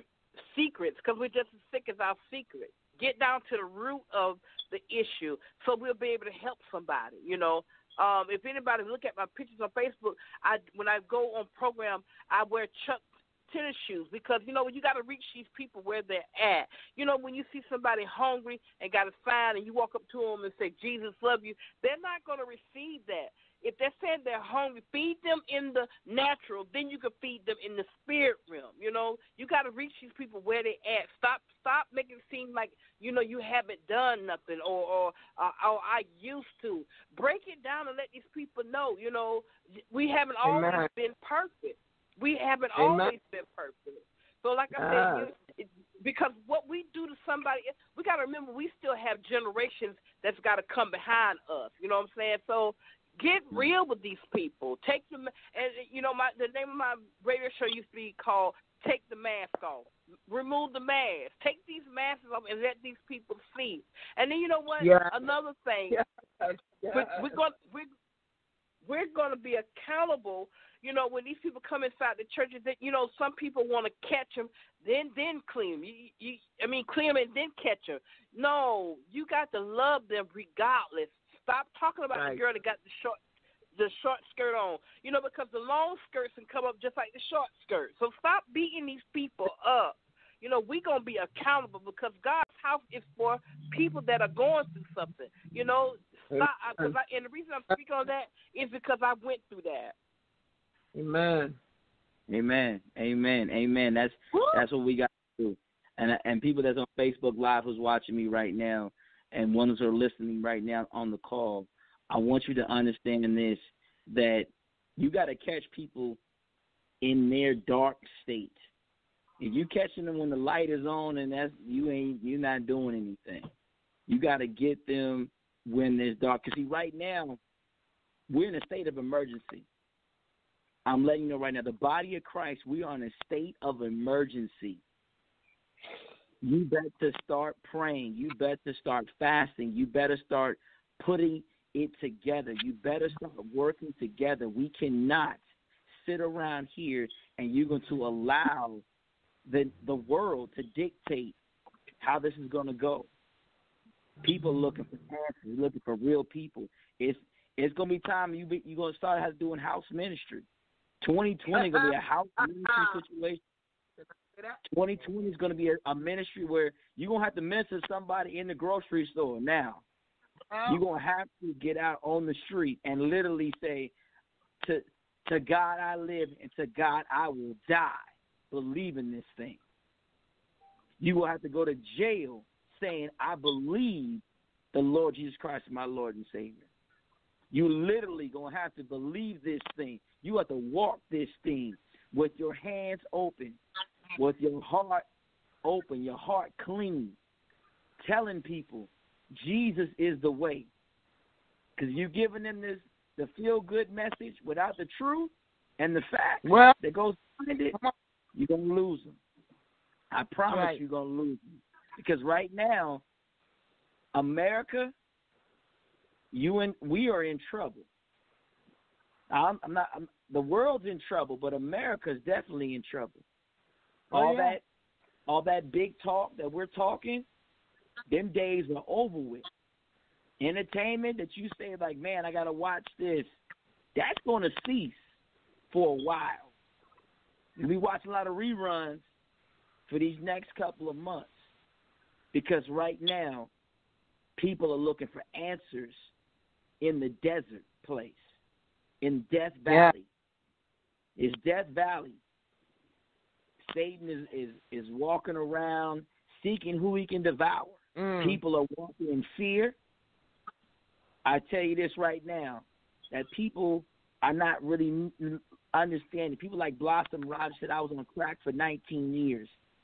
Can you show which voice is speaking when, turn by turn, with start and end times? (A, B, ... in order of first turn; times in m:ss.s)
0:00.4-1:06.0 A
0:40.4-0:40.9 B
0:42.7-0:43.2 B
0:44.7-0:45.3 B
1:04.8-1:05.3 B
1:05.9-1:07.4 B
1:06.9-1:07.9 A
1:08.8-1:23.2 A
1:22.1-1:22.4 B
1:23.8-1:39.9 A
1:36.3-1:37.0 B
1:40.9-1:41.6 B
1:42.3-1:56.2 C
1:57.0-1:58.6 C
1:59.4-2:03.5 C
2:04.1-2:07.4 C
2:08.3-2:09.6 C
2:10.8-2:14.8 C
2:16.4-2:28.8 C
2:29.5-2:31.4 C
2:32.0-2:33.1 C
2:34.2-2:40.4 C
2:41.0-2:43.4 C
2:44.7-2:49.8 C
2:50.5-2:50.8 B
2:50.7-2:53.9 C
2:54.6-2:59.6 C
3:01.0-3:06.7 C
3:07.5-3:13.6 C
3:14.2-3:15.0 C
3:15.6-3:17.2 C
3:18.0-3:20.7 C
3:21.8-3:27.7 C
3:26.4-3:26.8 B
3:28.3-3:29.2 C
3:30.1-3:33.0 C
3:30.5-3:30.8 B
3:34.1-3:34.9 C
3:36.3-3:37.8 C
3:39.3-3:43.2 C
3:44.1-3:44.6 B
3:44.1-3:44.6 C
3:45.3-3:47.3 C
3:48.1-3:49.4 C
3:50.4-3:53.3 C
3:53.9-3:55.1 C
3:55.7-3:56.5 C
3:57.6-3:59.0 C
3:59.9-4:01.4 C
4:02.3-4:03.5 C
4:04.4-4:06.1 C
4:06.8-4:08.3 C
4:09.0-4:10.1 C
4:09.7-4:09.9 B
4:11.2-4:12.2 C
4:13.6-4:19.8 C
4:18.0-4:18.4 B
4:21.2-4:29.5 C